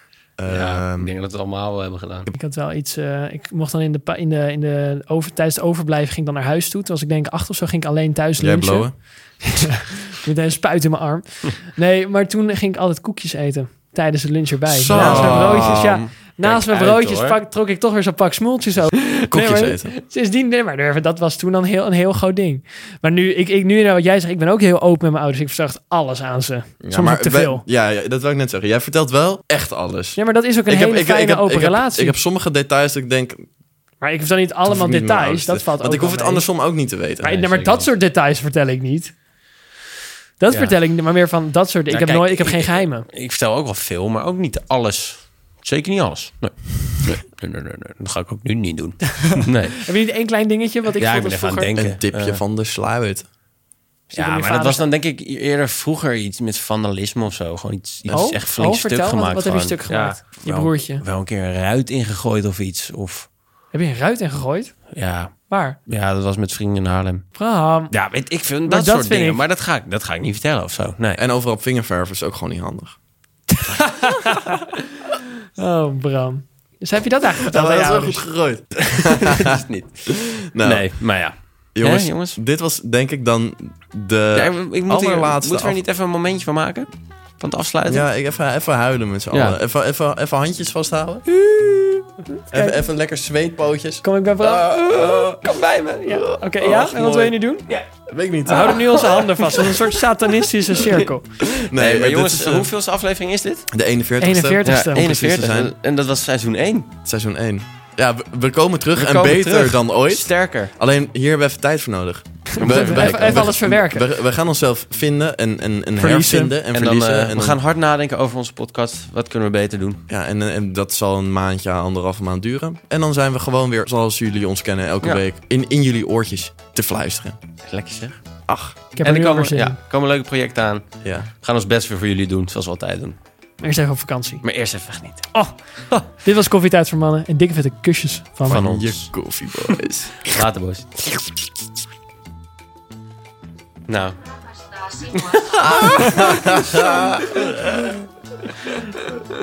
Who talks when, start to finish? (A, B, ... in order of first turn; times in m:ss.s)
0:00.4-0:01.1 A
0:00.5-0:02.3 B
0:02.3-0:27.6 C
0:08.4-0:09.4 A
0:14.7-0:16.0 A
0:14.8-0:17.4 B
0:19.1-0:19.9 A
0:26.8-0:33.5 A
0:30.2-0:32.2 C
0:34.0-0:36.5 C
0:34.7-0:37.4 A
0:37.2-0:39.1 C
0:37.2-0:37.9 B
0:40.4-0:43.1 C
0:40.5-0:40.8 B
0:41.9-0:49.8 B
0:49.8-0:51.7 C
0:51.0-0:52.4 B
0:51.7-0:53.2 A
0:54.1-0:54.8 C
0:54.1-1:03.3 B
0:58.1-0:58.4 A
0:58.1-1:01.0 C
1:03.7-1:05.8 C
1:04.9-1:07.3 B
1:07.4-1:07.9 C
1:07.9-1:11.2 B
1:08.7-1:09.4 C
1:11.2-1:13.0 A
1:13.5-1:14.6 C
1:15.6-1:18.2 C
1:17.5-1:21.1 A
1:18.8-1:22.4 B
1:21.8-1:25.8 A
1:24.3-1:26.9 B
1:27.4-1:28.1 B
1:27.8-1:31.2 A
1:29.3-1:29.6 B
1:31.3-1:32.1 B
1:32.4-1:32.8 C
1:32.5-1:35.4 A
1:34.0-1:35.3 C
1:35.2-1:36.2 B
1:36.0-1:37.7 C
1:36.1-1:37.4 A
1:38.1-1:39.6 A
1:38.5-1:41.2 C
1:41.4-1:42.7 A
1:41.8-1:43.7 B
1:43.7-1:45.7 A
1:44.2-1:45.1 C
1:44.6-1:46.9 B
1:47.0-1:57.6 A
1:49.0-1:50.7 B
1:52.6-1:53.6 B
1:52.7-1:54.1 C
1:56.0-1:56.5 C
1:56.7-2:00.0 B
2:00.1-2:07.4 A
2:07.7-2:08.2 B
2:08.5-2:08.8 A
2:09.0-2:09.8 C
2:09.0-2:10.8 B
2:11.0-2:11.3 A
2:11.4-2:13.2 B
2:13.6-2:14.4 C
2:14.4-2:16.0 B
2:15.3-2:18.6 C
2:18.5-2:19.2 B
2:18.5-2:20.2 A
2:20.2-2:21.3 B
2:23.9-2:27.5 B
2:25.6-2:27.4 A
2:28.7-2:29.1 C